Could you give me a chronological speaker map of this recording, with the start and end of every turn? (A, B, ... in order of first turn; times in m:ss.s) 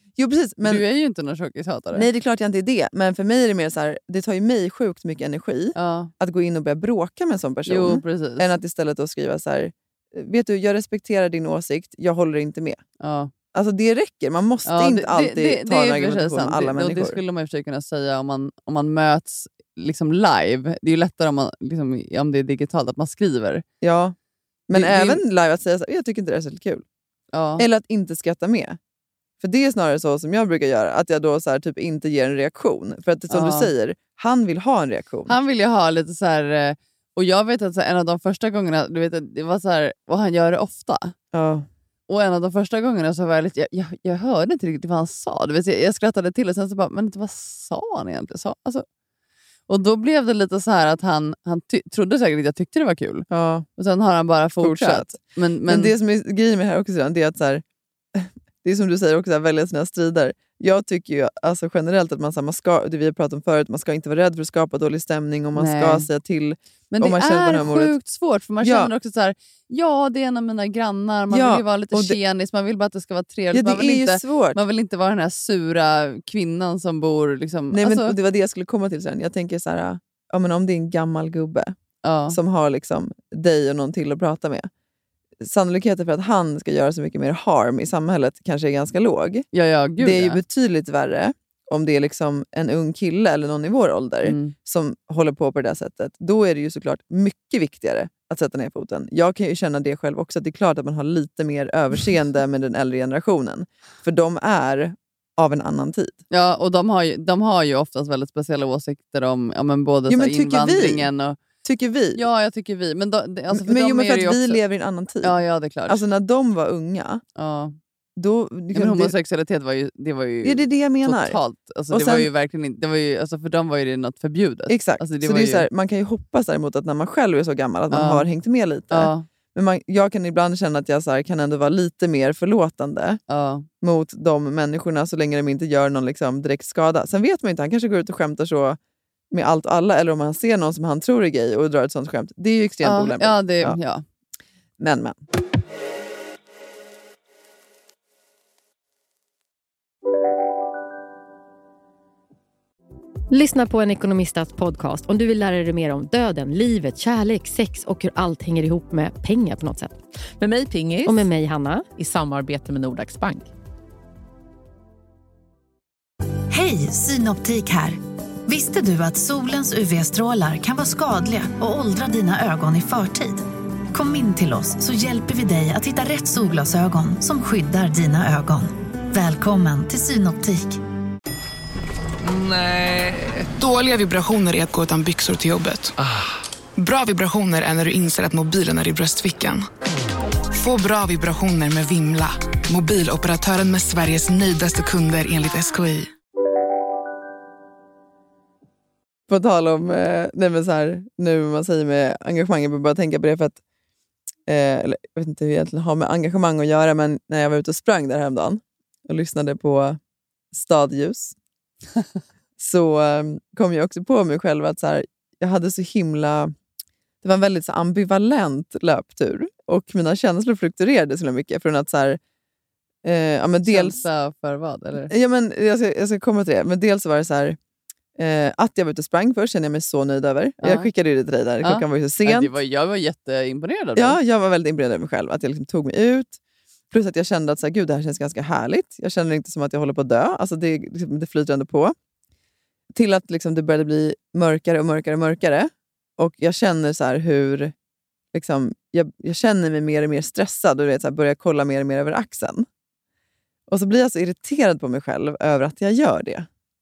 0:00.2-0:00.8 A
0:00.6-0:02.1 B
0:01.9-0:12.8 A
0:05.7-0:06.1 B
0:07.6-0:08.5 B
0:13.0-0:13.3 B
0:13.5-0:17.2 A
0:14.6-0:23.6 B
0:23.8-0:24.1 A
0:24.7-0:26.8 A
0:24.7-0:25.2 B
0:27.3-0:27.6 B
0:27.6-0:28.8 A
0:29.4-0:35.4 A
0:33.3-0:33.7 B
0:35.3-0:41.1 B
0:41.3-0:41.6 A
0:42.1-0:48.8 B
0:49.7-0:55.9 B
0:53.3-0:53.7 A
0:54.6-0:55.1 A
0:55.7-1:08.0 A
1:05.5-1:06.1 B
1:06.9-1:18.2 B
1:08.6-1:08.9 A
1:11.3-1:12.2 A
1:13.5-1:14.6 A
1:17.7-1:21.7 A
1:22.0-1:22.4 B
1:22.3-1:24.7 A
1:25.4-1:29.4 A
1:29.5-1:30.4 B
1:30.0-1:46.2 A
1:34.2-1:34.5 B
1:46.3-1:51.4 B
1:50.1-1:51.1 A
1:51.6-1:52.2 A
1:52.1-1:54.6 B
1:53.5-1:57.2 A
1:55.2-1:56.0 B
1:57.4-1:57.8 B
1:58.2-1:59.1 A
1:58.7-2:05.7 B
2:00.4-2:01.4 A
2:01.9-2:02.3 A
2:04.7-2:13.2 A
2:07.9-2:08.3 B
2:08.9-2:09.2 B
2:13.3-2:13.7 B
2:13.8-2:18.8 A
2:19.3-2:23.8 A
2:22.8-2:24.0 B
2:24.8-2:25.2 A
2:33.3-2:40.0 C
2:40.4-2:41.2 D
2:41.0-2:41.9 C
2:41.9-2:43.4 D
2:46.5-3:00.8 E
3:02.3-3:03.3 D
3:03.6-3:05.9 F
3:06.8-3:09.7 F
3:10.5-3:16.1 F
3:19.3-3:23.6 A
3:24.5-3:30.0 A
3:30.5-3:31.3 A
3:32.6-3:36.5 A
3:37.2-3:42.2 A
3:43.0-3:44.0 A
3:43.6-3:45.1 B
3:45.1-3:47.6 A
3:48.2-3:52.5 A
3:50.6-3:50.9 B
3:51.6-3:54.2 B
3:54.0-3:56.4 A
3:56.9-4:01.9 A
4:02.9-4:07.7 A
4:08.3-4:12.7 A
4:13.7-4:16.5 A